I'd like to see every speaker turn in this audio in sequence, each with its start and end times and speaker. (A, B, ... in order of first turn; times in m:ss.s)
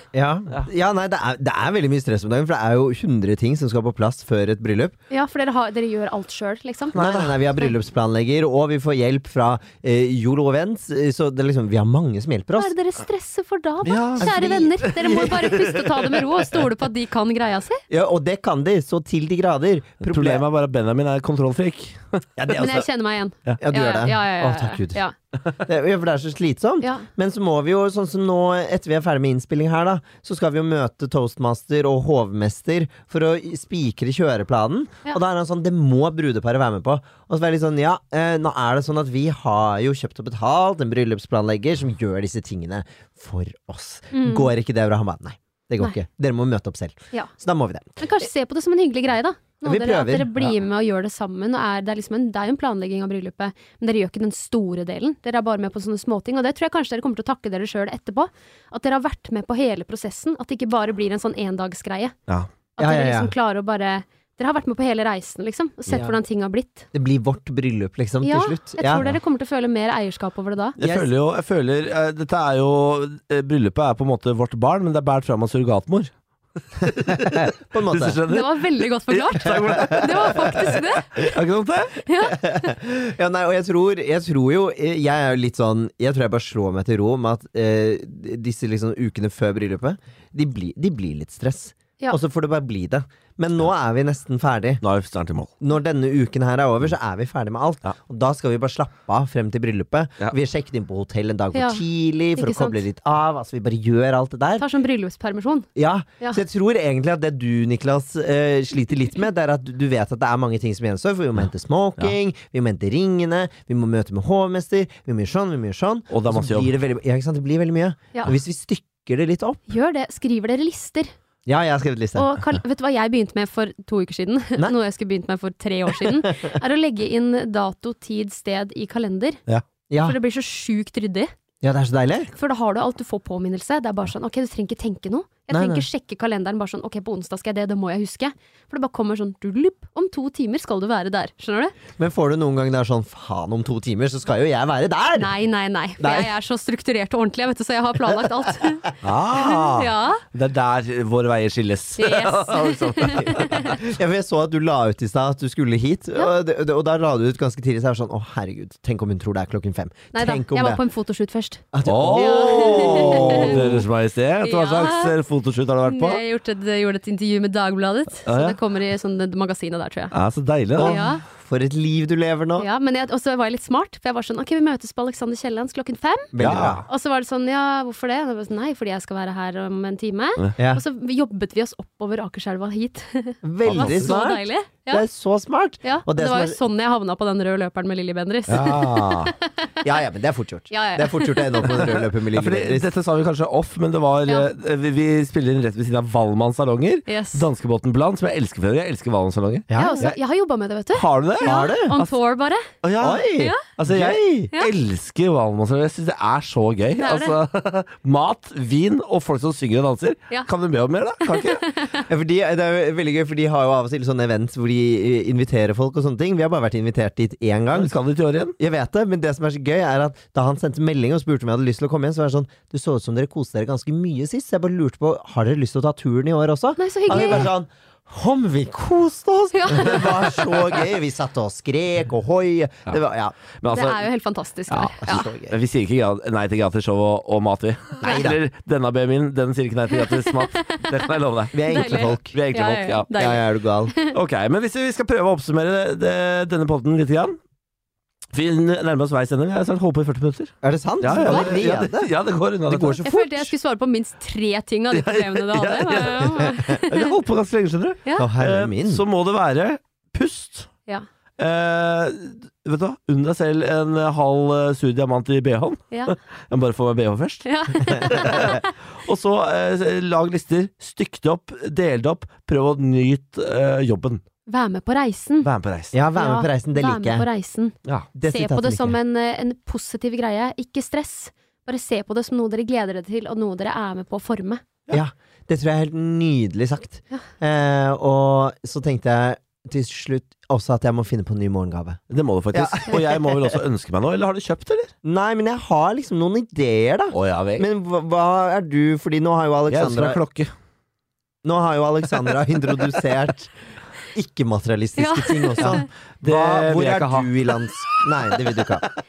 0:00.1-0:05.0 A
0:05.1-0:07.7 B
0:06.9-0:12.7 A
0:07.0-0:07.3 C
0:12.6-0:17.8 B
0:13.8-0:16.6 C
0:14.2-0:15.6 A
0:17.9-0:20.4 A
0:20.0-0:22.8 C
0:22.4-0:22.8 A
0:22.5-0:25.1 B
0:23.6-0:25.0 A
0:25.6-0:48.0 A
0:26.8-0:27.1 B
0:44.1-0:44.5 B
0:48.0-1:02.2 B
0:49.6-0:50.6 A
1:02.8-1:06.9 B
1:02.8-1:03.3 A
1:05.9-1:06.2 A
1:06.9-1:09.1 A
1:08.2-1:10.8 B
1:10.8-1:16.1 C
1:10.8-1:11.1 A
1:16.7-1:22.0 C
1:16.8-1:18.2 A
1:18.3-1:21.4 B
1:22.1-1:22.7 B
1:22.3-1:34.8 A
1:34.8-1:35.5 C
1:35.6-1:44.6 A
1:41.5-1:41.8 B
1:42.4-1:42.8 B
1:44.6-1:45.7 B
1:45.8-1:59.6 A
1:56.1-1:56.7 C
1:59.7-2:01.1 B
2:01.5-2:02.4 A
2:02.2-2:09.4 B
2:05.9-2:06.6 A
2:09.9-2:10.2 A
2:10.0-2:11.3 B
2:11.6-2:12.3 A
2:12.4-2:21.8 B
2:15.5-2:15.9 A
2:22.0-2:25.4 A
2:25.2-2:30.2 B
2:26.0-2:26.3 A
2:29.0-2:33.8 C
2:32.0-2:33.7 B
2:33.3-2:40.8 A
2:40.1-2:43.8 B
2:41.7-2:43.8 A
2:41.8-2:46.2 C
2:44.4-2:45.2 B
2:45.9-2:50.2 B
2:48.3-2:48.6 C
2:50.1-2:51.0 C
2:50.8-2:52.7 A
2:50.8-2:51.2 B
2:52.6-2:56.3 B
2:56.3-2:56.8 A
2:56.4-2:56.9 C
2:56.9-3:05.0 B
3:00.6-3:00.8 A
3:03.4-3:06.6 A
3:03.6-3:04.1 C
3:05.8-3:09.7 B
3:08.5-3:09.3 C
3:09.8-3:12.9 A
3:10.7-3:11.9 B
3:11.8-3:20.2 C
3:17.1-3:17.5 B
3:19.7-3:20.0 A
3:19.7-3:22.7 B
3:20.9-3:22.2 C
3:21.4-3:22.0 A
3:22.8-3:31.7 C
3:23.0-3:24.5 A
3:23.4-3:23.6 B
3:27.0-3:27.4 B
3:31.2-3:32.0 B
3:32.1-3:38.0 A
3:37.7-3:38.6 C
3:38.6-3:53.4 A
3:46.8-3:47.5 B
3:49.5-3:50.6 B
3:53.6-3:54.1 C
3:53.7-3:55.3 B
3:54.7-4:03.1 C
3:55.0-3:55.6 A
3:58.0-3:58.4 A
3:59.9-4:01.1 B
4:01.5-4:02.4 A
4:01.7-4:04.2 B
4:03.1-4:03.9 A
4:04.1-4:07.4 C
4:08.3-4:13.0 C
4:10.6-4:12.1 A
4:12.7-4:13.5 A
4:13.0-4:17.2 B
4:14.9-4:20.7 C
4:18.2-4:19.0 A
4:21.4-4:34.2 C
4:27.5-4:28.7 B
4:34.5-4:35.5 B
4:35.4-4:35.9 C
4:35.9-4:37.3 A
4:36.2-4:37.8 B
4:38.2-4:39.0 A
4:38.3-4:44.6 B
4:44.9-4:52.0 A
4:52.1-4:54.9 C
4:52.5-4:53.6 A
4:55.0-5:00.2 A
4:57.1-4:57.7 C
4:59.7-5:00.5 C
5:01.4-5:03.5 A
5:04.1-5:08.9 A
5:05.0-5:05.9 B
5:05.6-5:07.3 C